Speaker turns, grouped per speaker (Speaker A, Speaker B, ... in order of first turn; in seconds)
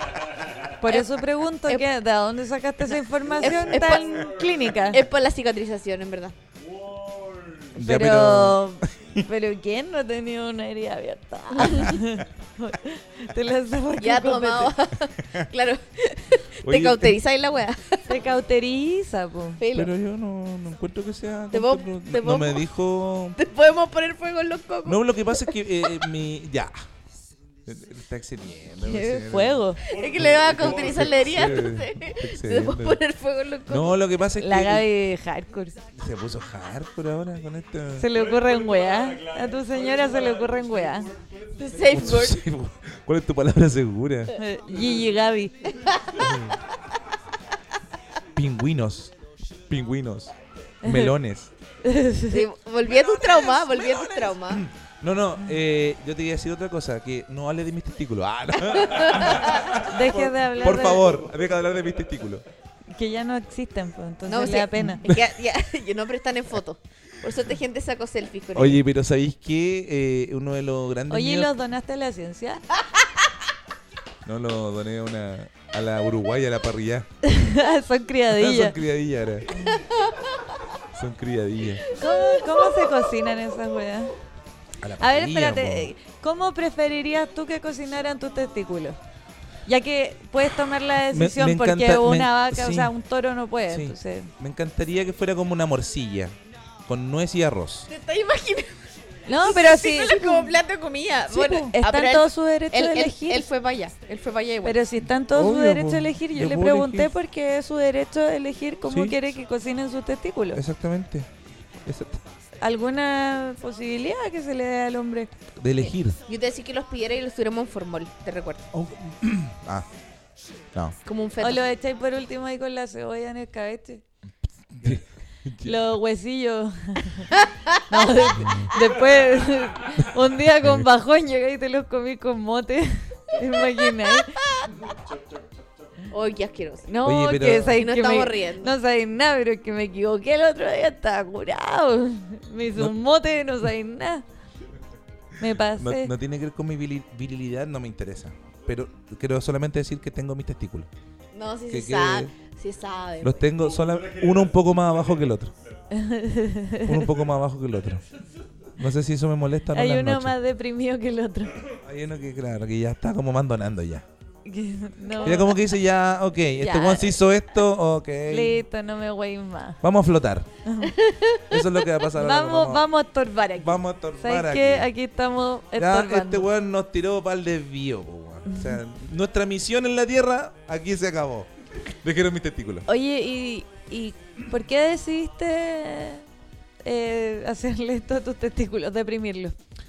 Speaker A: 0.7-5.0, 9.2-14.7, 18.1-19.6, 28.8-29.8, 34.4-35.8, 38.0-41.1, 44.3-45.7, 50.9-51.1, 51.8-52.5, 59.8-61.1, 62.9-65.0, 71.1-72.6, 77.2-78.8, 81.9-84.1, 85.0-89.0, 89.7-94.3, 99.3-100.5, 101.3-103.5, 104.6-110.6, 112.6-115.3, 121.4-124.0, 125.6-134.4, 136.9-144.2, 145.4-146.1, 155.9-157.1, 159.7-161.7, 164.4-165.6, 166.6-167.2, 168.3-169.8, 170.6-171.0, 172.1-176.5, 178.5-178.8, 182.9-186.2, 186.8-189.6
Speaker B: 0.9-1.9, 3.4-4.2, 4.9-6.3, 7.8-8.8, 11.6-11.9, 14.0-18.2, 19.6-19.9, 21.5-22.7, 23.4-26.1, 29.8-34.0, 41.5-42.4, 45.8-46.4, 52.3-54.6, 58.7-59.7, 64.3-68.8, 79.7-80.2, 82.3-82.7, 97.9-98.7, 99.4-104.8, 116.2-118.7, 121.0-121.6, 127.3-128.1, 134.4-134.7, 136.1-138.7, 151.3-153.4, 170.9-171.6
Speaker C: 7.8-9.2, 11.6-12.1, 16.6-17.1, 19.7-23.4, 24.8-26.7, 27.6-33.0, 33.7-34.9, 35.9-38.1, 41.9-44.4, 46.2-46.6, 48.3-49.1, 49.7-51.5, 52.9-62.4, 68.5-71.5, 74.2-77.1, 78.3-79.6, 80.9-81.9, 84.8-85.9, 91.1-92.9, 93.7-96.3, 96.9-97.9, 105.3-107.1, 108.9-109.2, 110.5-111.3, 111.8-112.2, 115.6-116.2, 118.7-119.9, 124.7-125.8, 128.4-128.7, 137.0-137.8, 145.7-150.9, 151.7-152.3, 153.2-155.5, 156.8-158.0, 158.7-160.3, 161.8-164.1, 165.2-168.6, 169.8-170.5, 171.5-172.8, 173.6-174.9, 175.8-182.8